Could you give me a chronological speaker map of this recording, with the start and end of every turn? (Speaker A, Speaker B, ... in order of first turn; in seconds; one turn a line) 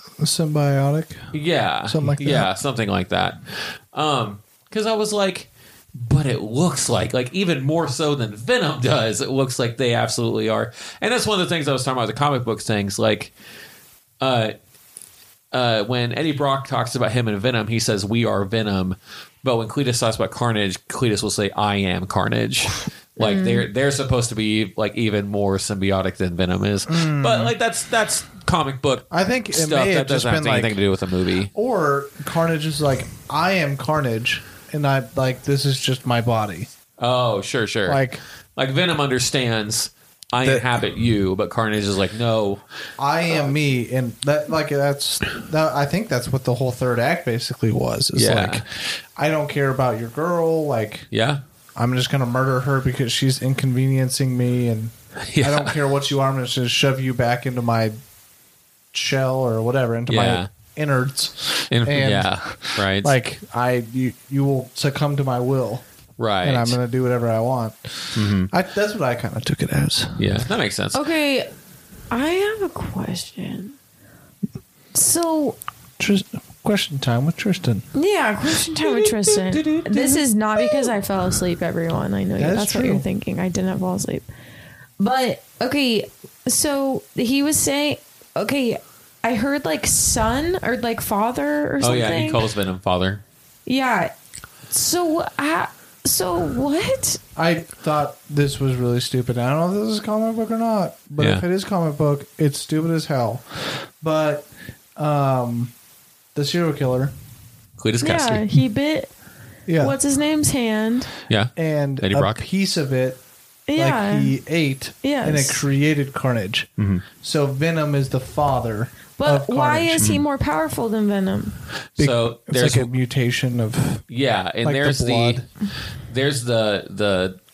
Speaker A: 0.2-1.3
Speaker B: 1.3-13.3
Speaker A: 1.9-2.5
Speaker B: 14.2-14.5
Speaker B: 15.5-31.5
Speaker C: 23.2-23.7
Speaker A: 26.9-27.5
Speaker A: 29.1-30.8
Speaker A: 31.5-36.7
Speaker B: 37.0-38.0
Speaker A: 37.9-38.2
Speaker B: 38.5-42.6
Speaker A: 40.4-40.6
Speaker A: 43.0-51.1
Speaker B: 48.1-48.6
Speaker B: 51.1-51.4
Speaker A: 51.8-58.0
Speaker B: 55.2-55.8
Speaker A: 58.9-65.8
Speaker B: 60.1-60.5
Speaker B: 61.7-63.1
Speaker B: 66.2-66.8
Speaker A: 66.4-70.2
Speaker B: 68.2-68.5
Speaker B: 70.2-71.0
Speaker C: 70.9-71.5
Speaker C: 72.1-73.7
Speaker C: 74.9-75.6
Speaker A: 76.0-77.9
Speaker C: 77.9-84.2
Speaker B: 78.7-80.6
Speaker A: 82.4-83.0
Speaker C: 85.0-92.4
Speaker B: 91.8-93.2
Speaker C: 93.7-94.1
Speaker C: 94.7-97.2
Speaker A: 97.3-105.7
Speaker B: 101.2-101.4
Speaker A: 106.3-107.1
Speaker B: 107.8-108.6
Speaker C: 108.0-109.1
Speaker A: 109.7-110.0
Speaker C: 109.8-111.1
Speaker B: 111.3-112.4
Speaker A: 111.5-113.2
Speaker C: 113.7-114.4
Speaker A: 113.8-116.7
Speaker C: 115.0-115.6
Speaker B: 116.8-117.0
Speaker A: 117.2-120.0
Speaker C: 119.2-121.6
Speaker B: 120.0-120.2
Speaker B: 122.0-122.9
Speaker A: 122.0-124.0
Speaker B: 124.1-125.5
Speaker A: 124.6-125.4
Speaker B: 126.1-127.4